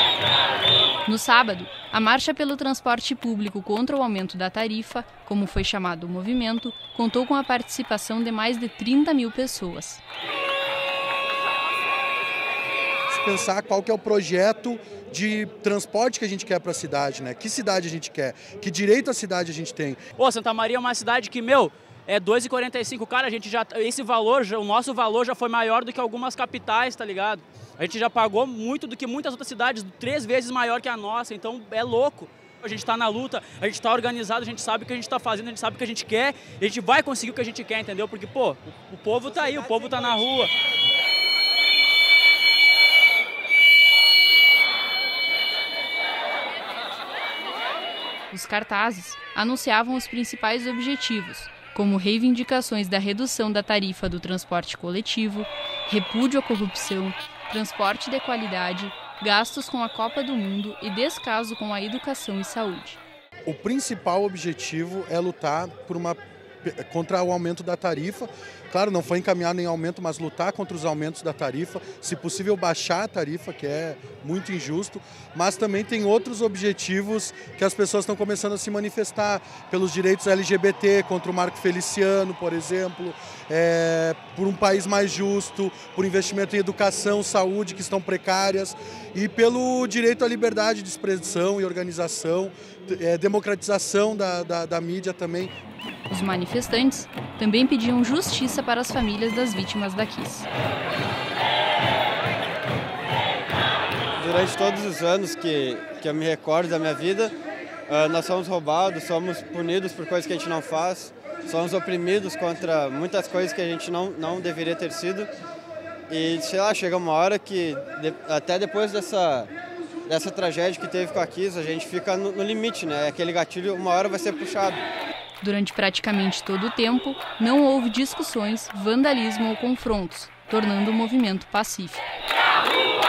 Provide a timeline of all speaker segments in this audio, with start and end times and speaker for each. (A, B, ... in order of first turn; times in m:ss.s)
0:01.1-0:10.0 A
0:13.1-0:20.0 B
0:20.2-0:40.5 C
0:48.3-1:03.0 A
1:03.5-1:35.5 B
1:36.1-1:40.5 A
1:44.2-1:47.3 D
1:47.9-1:55.3 D
1:56.1-1:59.5 D
2:00.1-2:04.8 D
2:05.4-2:12.1 A